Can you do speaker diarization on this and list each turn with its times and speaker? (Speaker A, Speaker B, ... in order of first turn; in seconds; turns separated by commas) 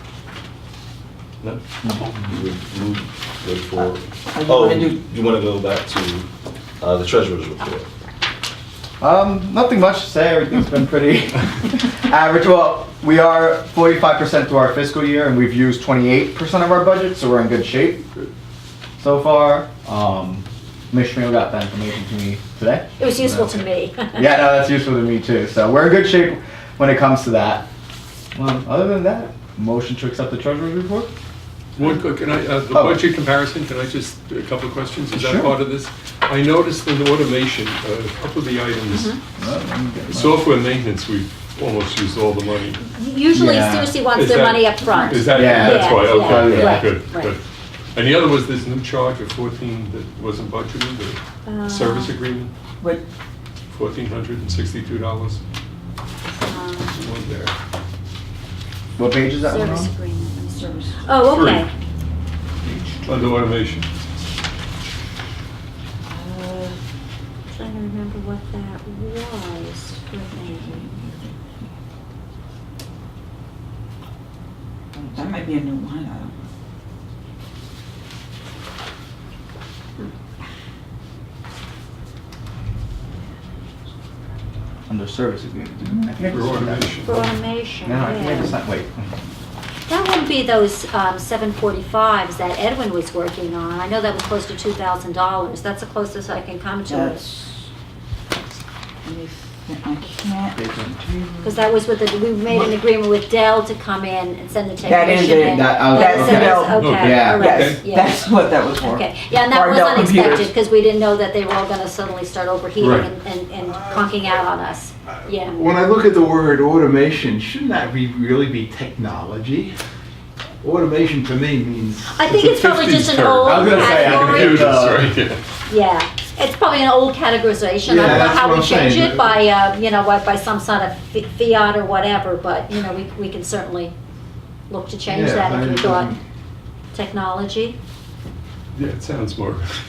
Speaker A: 1.4-6.3, Speaker B: 1.8-2.1, Speaker C: 4.3-5.0, Speaker A: 6.8-7.9, Speaker B: 9.0-18.3, Speaker B: 19.0-27.7, Speaker D: 23.0-24.2, Speaker B: 28.3-31.1, Speaker E: 31.8-39.1, Speaker B: 32.7-33.0, Speaker B: 35.1-35.5, Speaker D: 38.9-39.2, Speaker B: 39.4-40.5, Speaker E: 40.1-42.8, Speaker D: 42.8-47.3, Speaker B: 43.3-44.0, Speaker E: 44.1-47.4, Speaker C: 44.9-45.1, Speaker B: 45.3-46.9, Speaker E: 47.9-52.5, Speaker D: 51.4-52.2, Speaker E: 53.7-55.4, Speaker D: 56.4-57.0, Speaker E: 56.9-57.5, Speaker B: 59.0-59.9, Speaker D: 59.4-61.7, Speaker C: 60.5-61.0, Speaker E: 61.2-61.7, Speaker E: 63.0-63.9, Speaker C: 66.1-66.8, Speaker D: 67.5-70.8, Speaker C: 70.4-71.3, Speaker C: 74.9-76.3, Speaker B: 84.9-86.9, Speaker E: 86.2-87.3, Speaker D: 87.0-88.5, Speaker B: 87.8-89.1, Speaker D: 89.9-97.2, Speaker C: 96.8-97.6, Speaker C: 99.0-101.6, Speaker B: 100.5-101.0, Speaker D: 101.4-108.2, Speaker C: 104.8-110.5, Speaker B: 105.2-107.7, Speaker E: 106.7-107.8, Speaker D: 108.8-115.6, Speaker E: 112.8-113.1, Speaker F: 115.5-119.7, Speaker F: 120.6-122.2, Speaker D: 122.1-124.7, Speaker E: 122.2-125.4, Speaker B: 123.4-125.1, Speaker D: 125.7-133.9, Speaker F: 127.8-129.3, Speaker D: 134.7-136.1, Speaker F: 135.1-136.2, Speaker D: 136.9-137.8, Speaker E: 138.7-139.6